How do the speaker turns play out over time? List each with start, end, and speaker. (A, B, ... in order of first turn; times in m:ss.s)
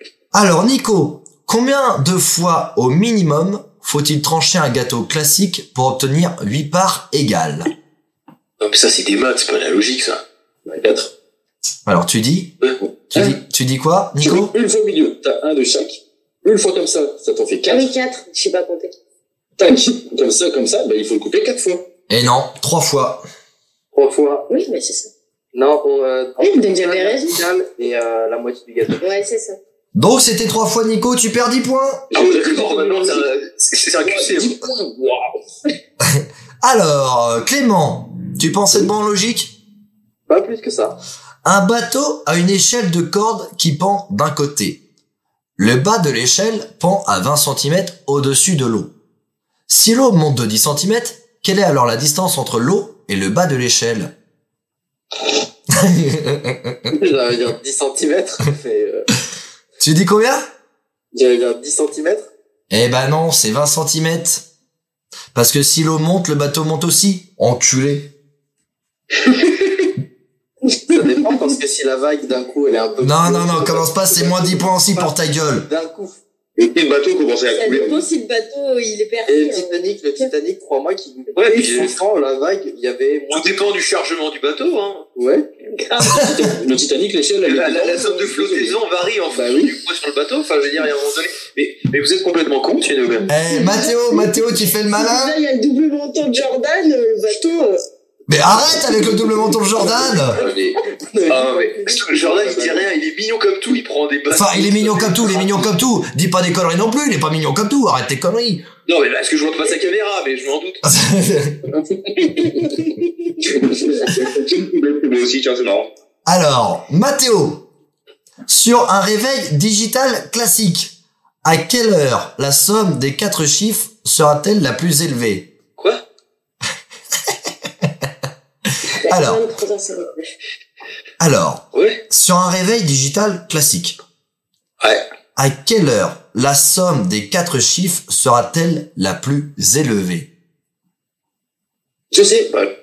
0:00.3-0:07.7 A
0:08.6-0:10.2 B
0:10.7-0:11.1 C
0:11.9-0:12.6 A
0:13.1-0:14.6 A
0:13.1-0:13.4 C
0:14.2-0:17.9 C
0:17.6-0:18.9 D
0:19.6-0:21.9 C
0:22.1-0:23.2 A
0:23.9-0:24.5 E
0:24.5-0:25.1 D
0:25.5-0:29.0 E
0:26.4-0:27.4 D
0:29.0-0:29.6 D
0:29.9-0:32.1 A
0:32.1-0:33.2 C
0:32.1-0:34.6 B
0:34.0-0:35.4 C
0:36.0-0:39.6 A
0:40.3-0:41.0 E
0:41.4-0:44.8 A
0:45.6-0:48.9 A
0:49.7-0:54.1 A
0:55.7-0:56.8 A
0:56.9-0:59.1 E
0:59.8-1:00.5 A
1:01.1-1:02.3 E
1:02.7-1:04.5 A
1:05.3-1:08.1 A
1:10.9-1:15.1 E
1:13.0-1:15.7 A
1:15.7-1:16.2 E
1:16.6-1:18.0 F
1:17.5-1:20.3 D
1:19.3-1:23.6 E
1:21.4-1:22.0 B
1:23.3-1:25.1 B
1:25.2-1:25.5 E
1:25.7-1:26.5 D
1:26.2-1:28.6 C
1:27.4-1:33.3 B
1:29.3-1:29.7 E
1:33.3-1:35.4 A
1:33.5-1:37.8 D
1:38.3-1:40.4 A
1:40.3-1:45.7 B
1:41.1-1:42.8 E
1:44.3-1:48.6 A
1:48.9-1:50.8 B
1:50.8-1:51.6 A
1:52.3-1:53.0 D
1:53.6-1:55.9 F
1:56.3-1:57.7 A
1:58.5-2:05.5 A
2:05.8-2:06.0 B
2:07.8-2:08.1 A
2:09.0-2:10.3 D
2:09.1-2:09.4 A
2:11.2-2:14.0 A
2:11.7-2:12.0 B
2:14.8-2:15.1 B
2:15.4-2:20.3 A